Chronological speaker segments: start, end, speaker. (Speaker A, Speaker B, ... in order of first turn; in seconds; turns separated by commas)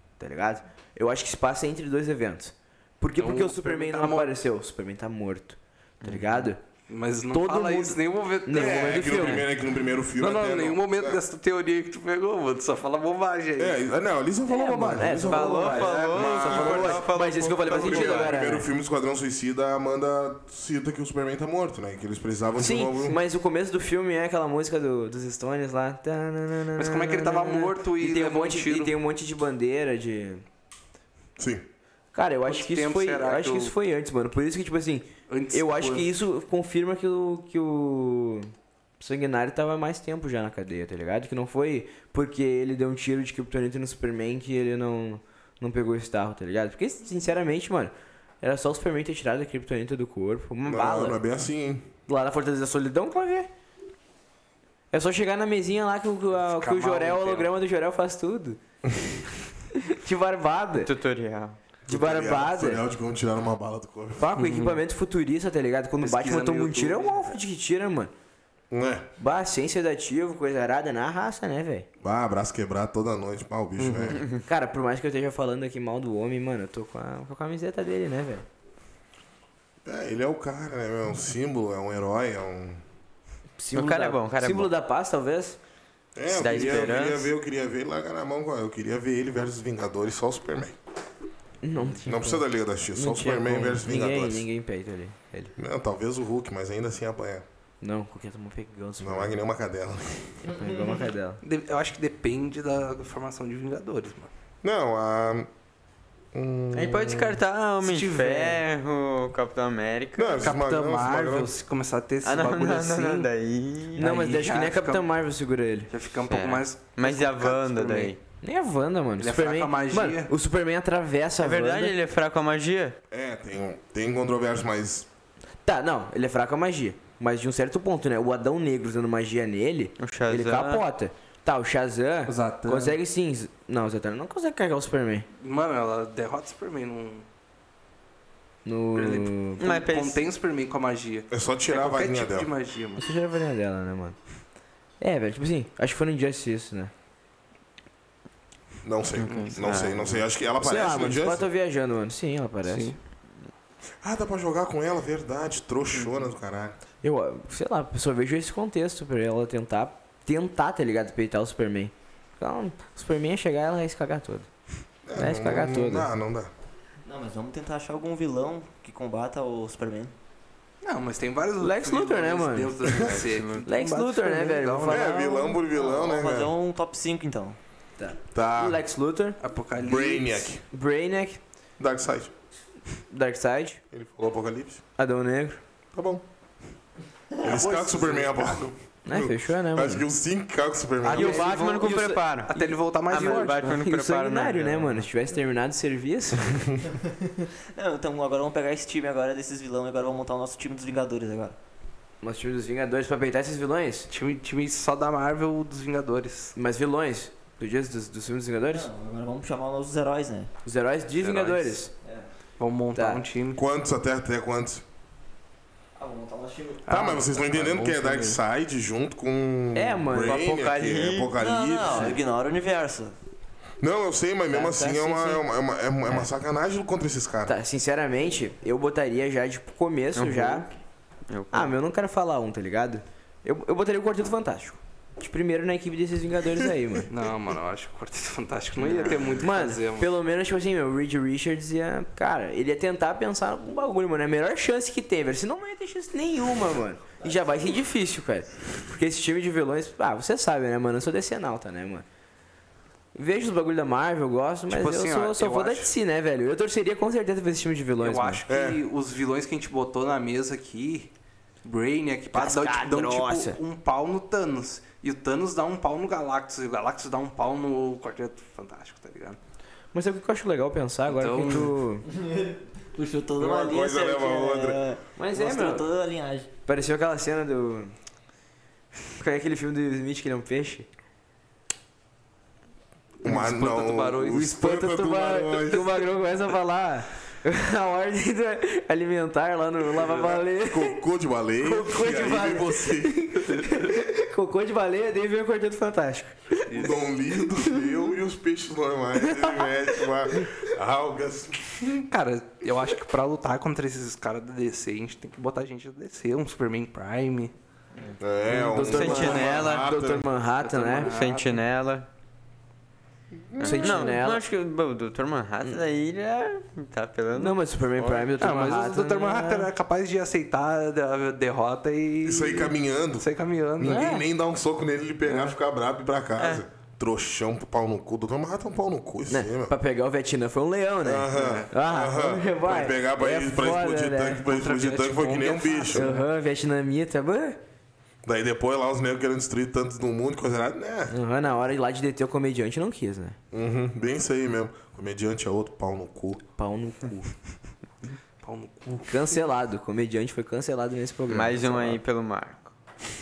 Speaker A: 0.2-6.6, Speaker B: 3.2-4.4, Speaker C: 6.0-6.5, Speaker B: 6.9-9.5, Speaker A: 7.3-9.5, Speaker D: 8.5-11.2, Speaker B: 10.2-13.8, Speaker D: 13.6-17.0, Speaker A: 14.5-18.7, Speaker C: 15.2-18.3, Speaker B: 15.6-17.0, Speaker D: 17.7-23.2, Speaker A: 22.6-30.4, Speaker B: 26.8-29.0, Speaker D: 31.4-31.7, Speaker A: 32.1-51.2, Speaker B: 32.5-33.7, Speaker B: 35.3-36.1, Speaker D: 50.7-51.9, Speaker A: 52.1-53.5, Speaker A: 54.9-58.6, Speaker B: 56.4-57.5, Speaker A: 59.7-60.9, Speaker C: 60.8-61.6, Speaker D: 61.9-64.3, Speaker A: 61.9-62.8, Speaker A: 64.2-68.1, Speaker B: 64.4-64.8, Speaker B: 66.0-67.4, Speaker D: 68.7-69.1, Speaker A: 69.2-71.9, Speaker D: 72.0-74.2, Speaker B: 73.8-74.2, Speaker A: 74.5-78.5, Speaker D: 79.8-82.8, Speaker A: 83.6-85.6, Speaker C: 83.7-84.7, Speaker D: 86.2-90.8, Speaker C: 86.3-87.3, Speaker A: 91.6-95.5, Speaker D: 92.0-94.5, Speaker D: 95.6-97.5, Speaker A: 97.8-99.4, Speaker D: 99.0-100.4, Speaker A: 100.5-101.4, Speaker B: 101.4-104.3, Speaker D: 104.6-105.5, Speaker D: 106.3-107.4, Speaker C: 106.7-110.4, Speaker B: 107.8-108.6, Speaker D: 110.2-111.5, Speaker B: 110.4-113.3, Speaker C: 112.2-114.0, Speaker A: 114.0-115.9, Speaker B: 114.0-115.1, Speaker B: 115.9-118.1, Speaker C: 116.3-118.2, Speaker A: 118.4-121.9, Speaker B: 119.2-120.3, Speaker C: 121.4-123.0, Speaker D: 123.1-125.1, Speaker A: 125.7-135.3, Speaker C: 130.0-130.8, Speaker B: 132.3-133.0, Speaker B: 135.4-137.3, Speaker A: 138.7-139.7, Speaker B: 138.9-143.1, Speaker C: 139.6-140.2, Speaker D: 141.3-142.5, Speaker A: 143.0-144.2, Speaker A: 145.0-146.9, Speaker D: 148.8-151.5, Speaker C: 149.2-150.1, Speaker B: 149.2-150.2, Speaker A: 150.6-152.9, Speaker B: 152.7-153.0, Speaker D: 154.0-156.8, Speaker A: 157.0-164.5, Speaker D: 165.1-166.5, Speaker A: 165.2-166.1, Speaker E: 167.1-170.1, Speaker B: 170.8-175.2, Speaker A: 171.6-172.8, Speaker D: 172.9-173.1, Speaker C: 172.9-173.7, Speaker A: 173.7-175.6, Speaker D: 174.8-176.5, Speaker E: 175.7-177.6, Speaker A: 178.0-179.4, Speaker D: 178.3-178.8, Speaker B: 179.4-180.5, Speaker D: 179.8-180.6, Speaker A: 180.7-181.4, Speaker D: 181.8-182.3, Speaker A: 183.1-183.8, Speaker D: 183.9-184.8, Speaker A: 185.0-185.6, Speaker D: 185.9-186.2, Speaker B: 187.4-188.7, Speaker D: 187.4-191.4, Speaker A: 189.1-190.1, Speaker A: 191.1-192.2, Speaker B: 191.1-193.8, Speaker C: 191.1-195.1, Speaker A: 193.1-196.8, Speaker E: 197.8-201.6, Speaker A: 202.2-204.1, Speaker B: 204.1-206.6, Speaker A: 206.6-208.9, Speaker E: 208.7-210.5, Speaker A: 210.7-211.9, Speaker B: 211.2-211.8, Speaker B: 212.6-213.6, Speaker A: 212.9-213.2, Speaker D: 213.5-214.8, Speaker E: 216.0-216.9, Speaker B: 216.9-218.4, Speaker D: 216.9-222.2, Speaker A: 219.7-220.6, Speaker C: 220.2-221.4, Speaker E: 221.4-223.2, Speaker D: 223.8-227.6, Speaker A: 224.5-225.4, Speaker A: 227.5-230.7, Speaker C: 230.2-230.7, Speaker C: 231.3-231.8, Speaker A: 231.5-237.1, Speaker B: 237.1-240.1, Speaker A: 238.8-252.1, Speaker A: 253.2-258.4, Speaker B: 254.7-255.9, Speaker B: 258.0-261.1, Speaker D: 258.5-258.8, Speaker B: 261.6-269.4, Speaker A: 262.3-263.6, Speaker A: 269.9-272.1, Speaker B: 271.1-271.8, Speaker E: 272.1-276.5, Speaker D: 273.4-274.8, Speaker A: 275.2-275.8, Speaker A: 276.7-277.9, Speaker A: 279.2-280.9, Speaker B: 283.2-284.6, Speaker D: 283.2-285.9, Speaker A: 284.3-291.0, Speaker D: 290.6-293.4, Speaker A: 291.6-296.6, Speaker B: 296.7-297.0, Speaker D: 296.7-302.1, Speaker B: 302.1-307.5, Speaker D: 308.2-310.3, Speaker A: 308.5-311.1, Speaker C: 308.9-309.9, Speaker B: 310.6-311.6, Speaker C: 311.0-312.1, Speaker D: 313.5-314.0, Speaker A: 313.6-314.4, Speaker C: 313.6-317.6, Speaker A: 317.4-319.7, Speaker B: 318.4-324.1, Speaker D: 322.2-329.7, Speaker A: 323.9-324.3, Speaker A: 325.3-325.5, Speaker C: 326.4-326.6, Speaker A: 329.3-337.6, Speaker D: 331.0-336.1, Speaker B: 331.3-331.7, Speaker B: 335.1-336.2, Speaker D: 338.2-341.1, Speaker A: 341.1-343.4, Speaker D: 343.5-346.4, Speaker A: 346.6-347.3, Speaker B: 348.4-349.4, Speaker A: 349.1-352.0, Speaker C: 351.3-352.7